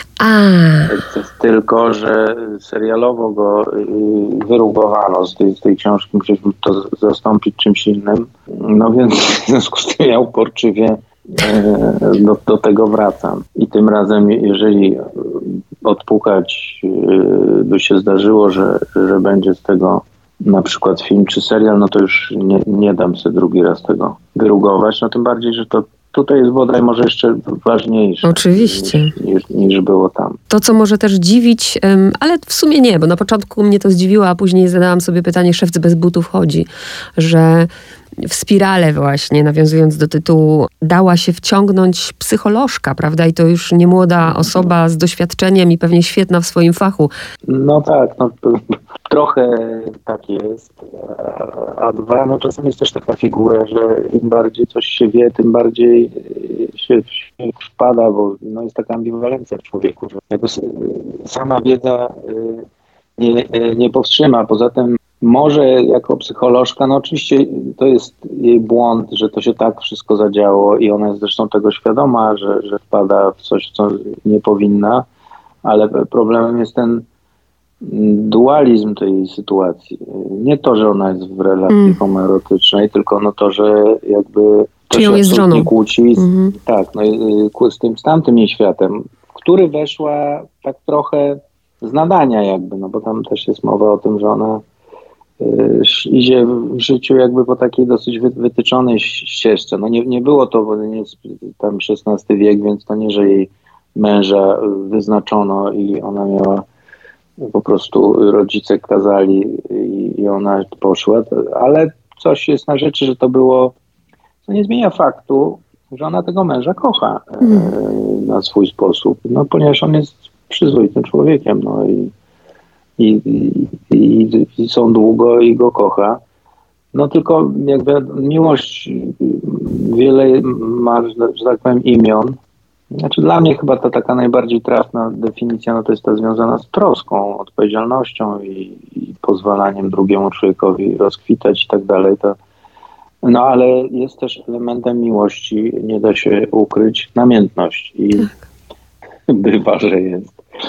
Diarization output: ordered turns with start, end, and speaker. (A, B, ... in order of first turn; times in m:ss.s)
0:00.2-0:00.9 A
0:00.9-0:30.4 B
0:28.2-0:29.1 A
0:30.5-0:37.7 A
0:38.2-0:47.1 A
0:44.2-0:44.6 B
0:47.5-1:02.6 B
1:03.2-1:15.1 B
1:15.6-1:17.0 B
1:17.8-1:34.6 B
1:21.7-1:22.0 A
1:24.9-1:26.5 A
1:35.4-1:46.6 B
1:47.4-1:53.7 B
1:54.5-2:02.1 B
1:57.4-1:57.7 A
2:03.0-2:06.2 B
2:06.9-2:12.4 B
2:13.0-2:22.4 B
2:23.2-2:28.3 B
2:29.3-2:30.4 B